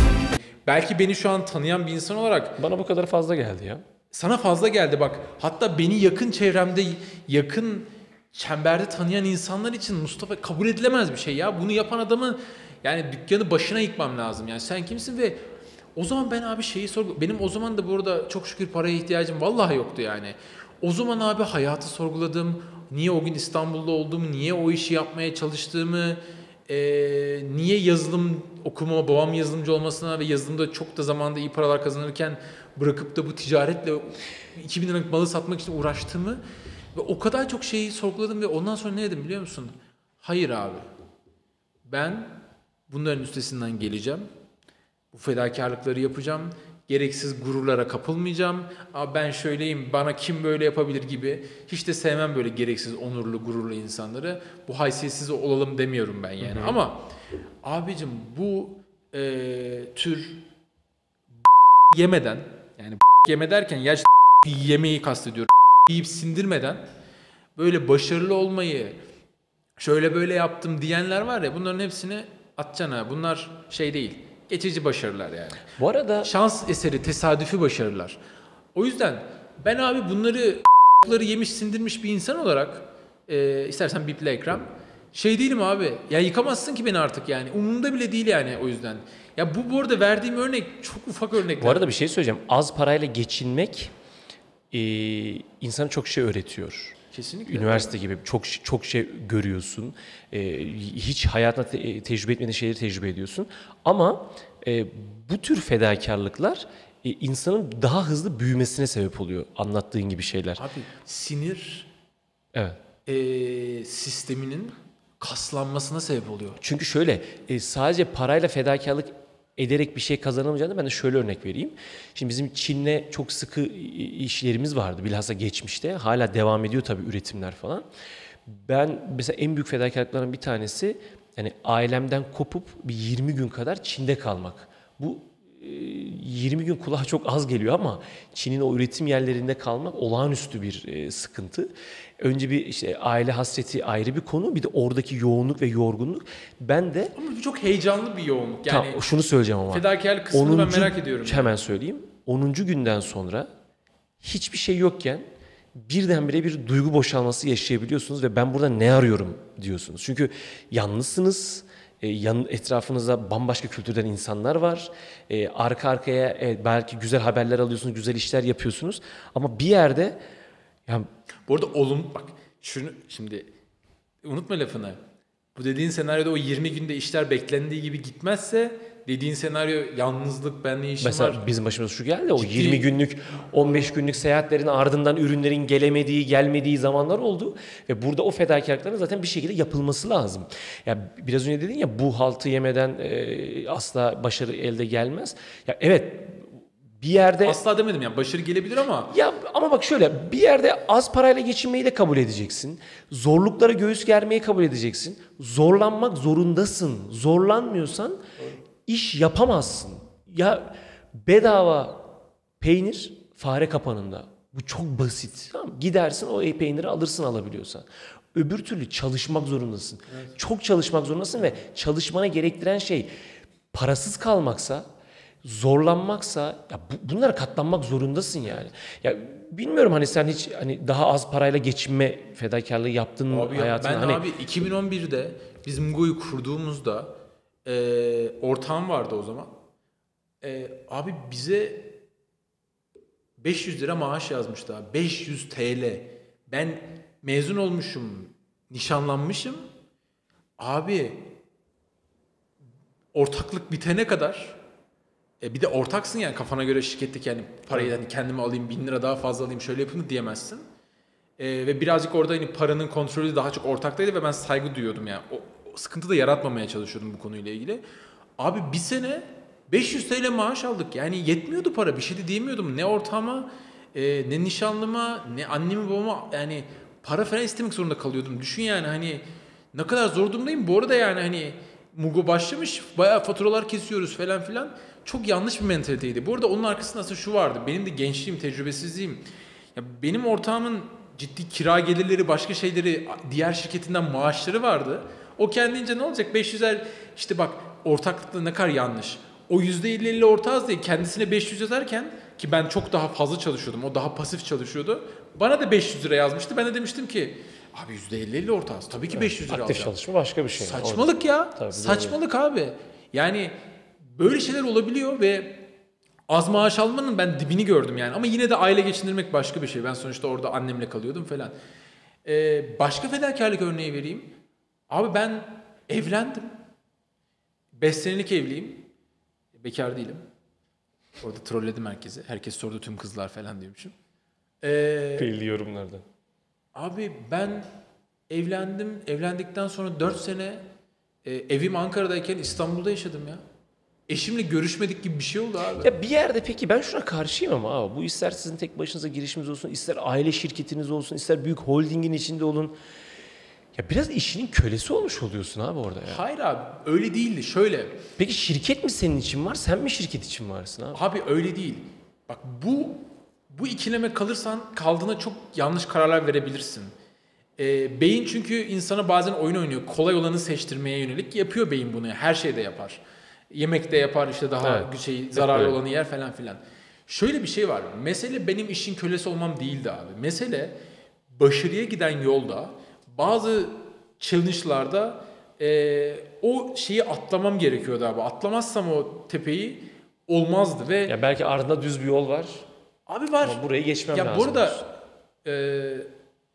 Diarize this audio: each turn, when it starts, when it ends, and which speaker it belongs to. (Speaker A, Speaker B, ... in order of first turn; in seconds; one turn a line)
Speaker A: 0.7-2.6
Speaker B: 2.6-3.8
Speaker A: 4.1-15.4
Speaker A: 16.0-36.4
Speaker A: 36.9-40.9
Speaker A: 41.9-44.3
Speaker A: 45.1-57.1
Speaker B: 56.4-56.8
Speaker A: 57.6-60.5
Speaker A: 61.9-66.8
Speaker A: 67.6-69.0
Speaker A: 69.8-75.7
Speaker B: 75.8-76.3
Speaker A: 76.2-78.2
Speaker A: 78.8-91.9
Speaker B: 91.6-93.9
Speaker B: 94.7-97.0
Speaker A: 97.1-97.9
Speaker B: 97.5-110.6
Speaker A: 110.6-111.9
Speaker B: 112.5-112.8
Speaker A: 113.1-116.6
Speaker B: 116.6-127.9
Speaker B: 128.5-147.1
Speaker A: 147.2-149.0
Speaker B: 148.7-153.5
Speaker A: 149.7-151.6
Speaker B: 154.2-170.2
Speaker A: 171.5-173.5
Speaker A: 174.2-175.0
Speaker A: 175.6-181.4
Speaker B: 181.0-197.6
Speaker A: 182.3-182.9
Speaker A: 197.4-199.1
Speaker B: 199.1-208.2
Speaker B: 208.9-212.1
Speaker B: 212.6-223.1
Speaker B: 223.7-224.9
Speaker B: 225.4-234.2
Speaker A: 233.3-237.1
Speaker A: 237.7-239.5
Speaker A: 240.4-242.0
Speaker A: 243.4-249.6
Speaker A: 250.6-251.3
Speaker A: 253.1-254.6
Speaker A: 255.4-260.6
Speaker A: 261.4-267.8
Speaker A: 268.4-310.0
Speaker B: 309.1-312.2
Speaker A: 310.6-313.5
Speaker A: 314.1-315.6
Speaker A: 316.3-321.5
Speaker A: 322.2-324.3
Speaker A: 324.9-326.5
Speaker A: 327.7-328.9
Speaker A: 329.6-330.2
Speaker A: 331.2-333.9
Speaker A: 334.6-335.3
Speaker B: 335.2-336.0
Speaker A: 336.8-337.7
Speaker A: 338.3-340.6
Speaker A: 341.2-343.4
Speaker A: 344.1-345.9
Speaker B: 345.8-352.8
Speaker B: 353.7-356.2
Speaker A: 356.1-358.0
Speaker B: 358.2-361.0
Speaker A: 360.9-366.9
Speaker A: 367.6-380.8
Speaker B: 374.6-375.8
Speaker A: 381.3-391.1
Speaker B: 391.1-392.6
Speaker A: 393.1-394.9
Speaker B: 393.4-394.8
Speaker A: 395.4-396.1